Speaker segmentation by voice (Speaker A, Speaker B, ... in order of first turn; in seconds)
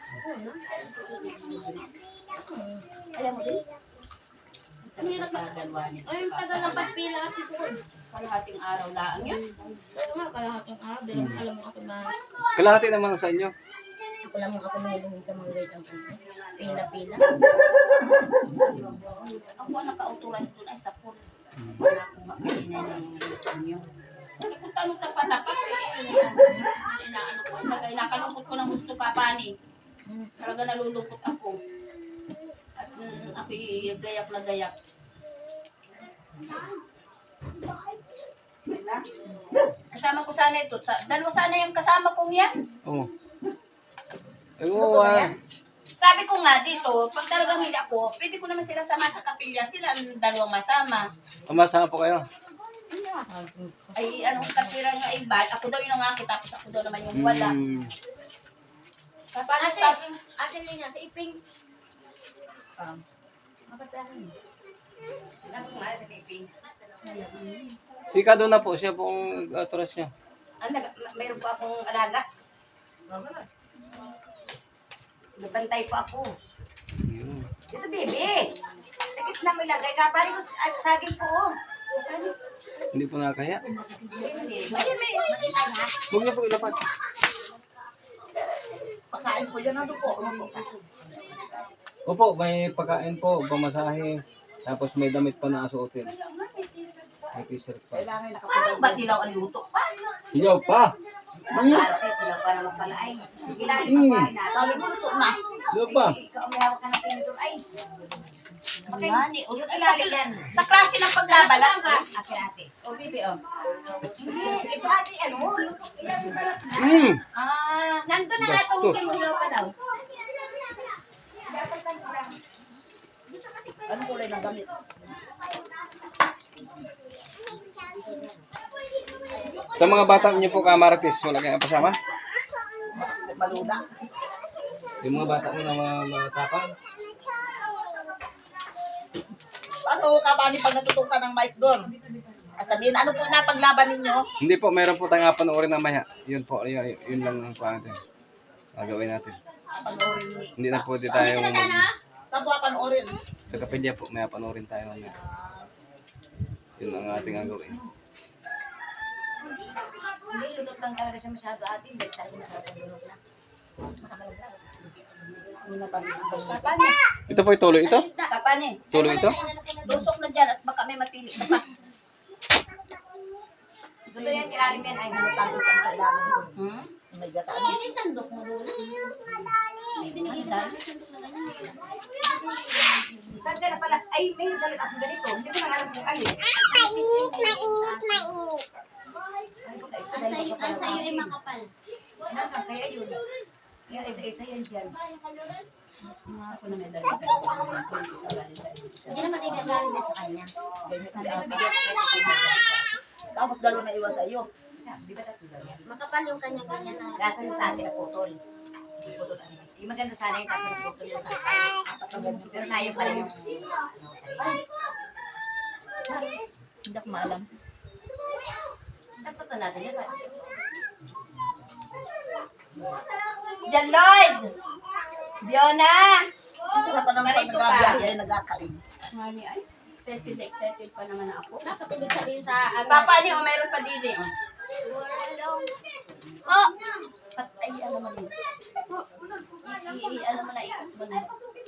Speaker A: 0.2-0.7, 2.3-2.9, 5.0-5.5, 6.0-7.8, 9.9-12.1, 14.2-17.2, 26.4-26.7, 30.1-30.3, 52.9-54.8, 59.6-61.4, 63.7-64.3, 84.7-85.9, 111.2-112.0, 118.0-119.6, 151.1-151.9, 164.0-164.7, 167.8-168.3, 168.9-170.1, 177.6-178.8, 180.0-184.0, 186.6-188.4, 190.1-191.7, 196.5-197.1, 199.1-200.5, 205.8-207.8, 231.6-233.3, 234.8-235.7, 236.5-236.7
Speaker B: 0.7-1.9, 3.1-3.6, 4.8-6.9, 8.1-9.4, 19.1-23.9, 24.4-29.5, 30.4-31.6, 32.8-34.7, 39.9-42.5, 46.0-51.0, 53.9-57.5, 59.3-60.2, 67.0-67.8, 81.9-82.3, 84.1-84.5, 96.0-97.4, 98.5-100.2, 108.9-112.0, 112.8-113.4, 119.1-119.7, 166.4-167.0, 168.3-168.9, 169.8-171.7, 176.5-176.9, 196.3-199.8, 212.8-213.1, 216.1-216.7, 223.6-224.5, 225.4-228.1, 229.1-232.2, 232.8-234.3, 237.3-238.3, 239.6-241.3
Speaker C: 11.1-11.4, 12.6-13.5, 42.9-43.1, 44.6-45.3, 51.5-52.2, 57.1-57.9, 68.1-70.1, 77.0-77.5, 82.9-83.6, 86.1-86.8, 92.0-96.1, 97.3-98.0, 100.3-101.0, 101.5-101.9, 103.8-104.3, 105.7-106.2, 116.7-117.2, 118.4-119.0, 129.7-132.0, 135.0-136.8, 144.4-148.0, 148.8-149.4, 150.6-151.9, 153.5-155.1, 156.8-157.8, 167.3-168.1, 168.9-169.4
Speaker D: 16.3-16.9, 65.4-66.5, 70.6-72.2, 75.4-76.3, 77.7-78.5, 79.1-81.5, 84.1-85.1, 89.6-91.5, 101.4-105.1, 105.7-107.6, 108.8-110.6, 111.4-112.7, 114.1-117.9, 121.5-122.4, 127.8-128.3, 160.2-163.2, 174.1-175.6, 180.0-180.8, 183.3-186.5, 189.6-191.3, 192.3-193.2, 193.9-195.0, 201.0-202.9, 204.8-208.4, 209.0-214.7, 219.2-220.6
Speaker E: 38.6-39.1, 44.7-45.4, 89.1-90.5, 97.9-99.3, 104.5-105.4, 123.8-124.7, 132.9-133.9, 139.8-141.9, 142.6-144.2, 149.7-151.4, 152.3-153.2, 155.0-155.7, 165.6-166.7, 174.9-176.6, 177.1-177.8, 200.8-201.9, 203.3-204.5, 211.8-213.5, 216.8-217.5, 226.7-228.8